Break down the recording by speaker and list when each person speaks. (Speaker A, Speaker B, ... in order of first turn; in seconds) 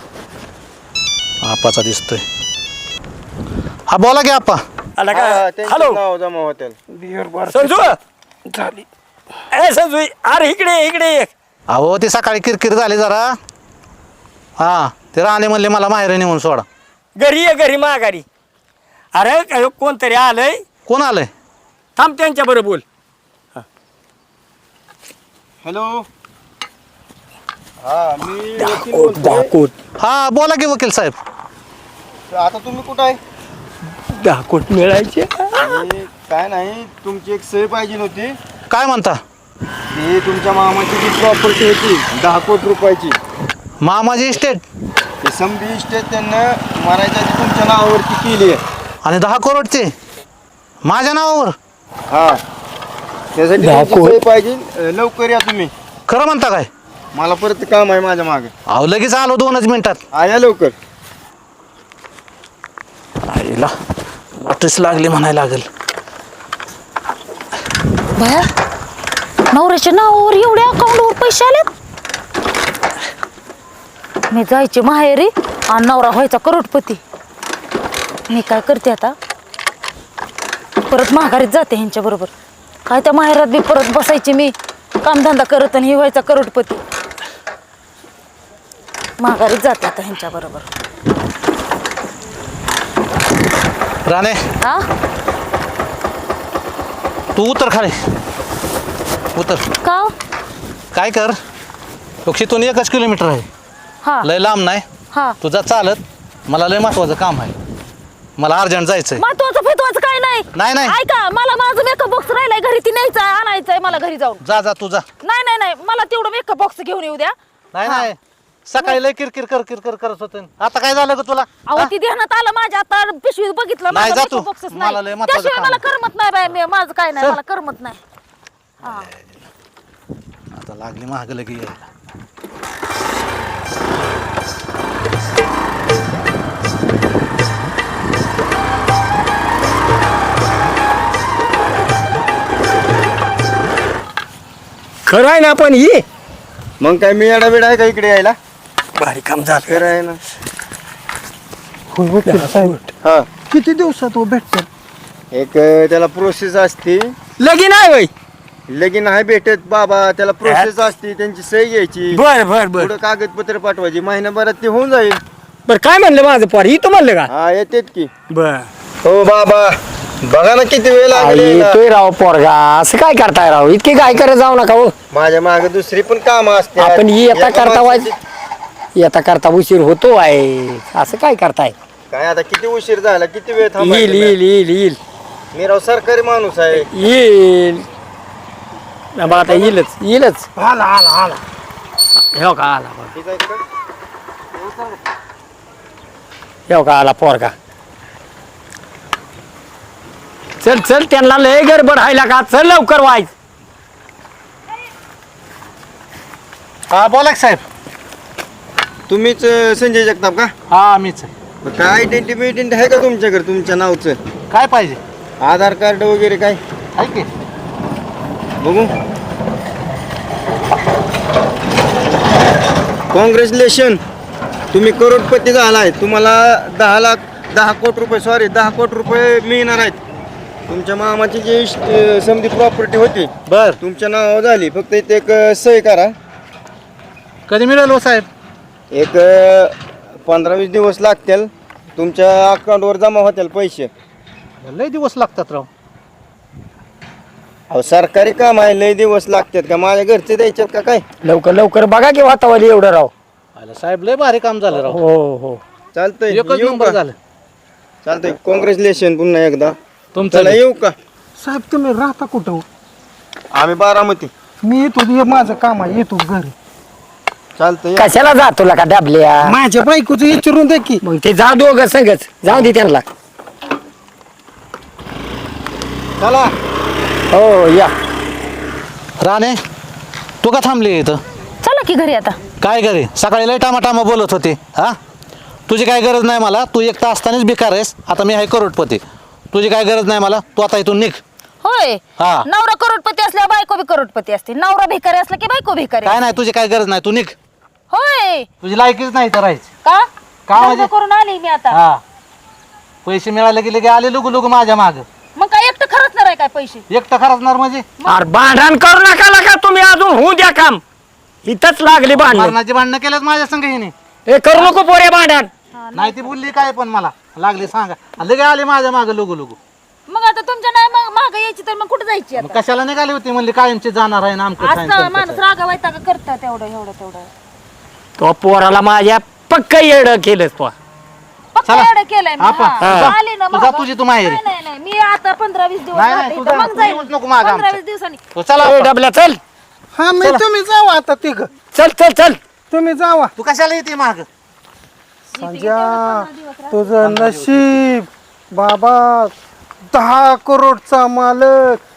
Speaker A: 1.4-2.2, 3.9-4.6, 11.7-13.4, 14.6-16.7, 20.9-21.3, 30.0-31.2, 38.7-39.2, 43.8-44.6, 49.0-49.9, 50.9-51.5, 56.1-56.7, 58.7-60.0, 63.3-63.7, 64.4-65.7, 94.1-94.4, 97.3-98.0, 99.3-99.7, 100.9-101.4, 102.2-103.5, 104.2-104.8, 105.4-107.5, 108.4-109.2, 110.5-111.0, 114.4-115.1, 117.7-121.9, 123.9-125.8, 128.8-129.4, 130.5-131.9, 206.9-207.6, 210.7-211.3, 214.5-215.0, 217.0-217.3, 233.5-233.8, 237.5-238.3, 244.6-245.7, 253.6-255.0, 256.3-257.2, 260.1-260.6, 279.2-279.6, 280.4-281.2, 282.6-285.0, 285.7-291.2, 292.2-292.5, 296.0-297.4, 298.6-299.7, 300.5-300.9, 301.7-302.0, 303.1-305.1, 306.9-307.9, 312.1-313.9, 315.9-319.6, 322.4-325.4, 331.7-334.4, 335.9-337.8, 338.3-338.9, 343.4-344.3, 347.0-347.8
Speaker B: 5.0-6.0, 7.5-8.0, 9.5-11.3, 17.2-18.2, 19.1-20.6, 22.0-22.8, 28.6-29.7, 34.1-35.9, 53.6-54.2, 145.1-146.1, 149.0-149.8, 152.2-152.8, 157.4-158.1, 160.4-160.7, 162.1-162.9, 165.7-167.3, 168.3-168.7, 171.1-174.9, 176.8-178.1, 179.0-181.8, 183.8-185.0, 186.9-187.9, 189.2-190.5, 192.2-193.1, 196.7-197.6, 200.6-203.3, 251.2-253.1, 254.8-255.6, 268.0-269.6, 271.0-273.0, 277.3-277.9, 308.1-310.8, 311.4-312.6, 314.3-315.5, 328.2-330.7, 332.8-333.2, 338.6-339.4, 341.7-342.4
Speaker C: 5.1-6.8, 25.6-26.1, 27.8-29.5, 32.3-33.2, 35.6-38.4, 39.9-43.2, 45.2-48.6, 52.1-52.4, 53.4-55.7, 57.1-58.5, 60.1-60.8, 146.8-148.4, 149.6-150.2, 153.0-153.3, 155.3-157.1, 158.7-162.2, 162.7-165.2, 167.3-168.1, 169.0-171.8, 175.1-178.2, 182.1-184.4, 185.5-186.9, 189.3-189.8, 193.1-193.6, 194.6-194.9, 209.1-210.5, 211.6-214.2, 215.4-216.6, 218.6-218.9, 223.1-224.0, 224.7-230.0, 230.7-236.2, 238.9-243.9, 247.7-251.0, 255.9-257.0, 258.1-259.7, 260.3-260.9, 263.5-264.3, 267.6-268.1, 276.2-276.5
Speaker D: 6.9-8.0, 8.5-8.9, 151.9-152.9, 153.5-154.7, 190.6-191.4, 261.4-262.6, 264.6-266.5, 269.4-271.0, 340.0-341.5, 342.7-343.3, 345.4-349.3, 349.9-351.8
Speaker E: 68.2-68.5, 69.5-71.7, 74.3-77.0, 78.3-79.2, 80.9-82.3, 82.9-86.8, 89.2-90.7, 94.6-94.9, 99.8-100.1, 109.2-114.4, 115.2-118.1, 121.7-128.0, 281.6-282.4, 291.6-296.2, 297.9-298.5, 300.6-301.8, 305.4-306.8, 315.8-316.3, 320.1-322.6, 324.6-327.3, 331.6-338.2, 345.3-346.9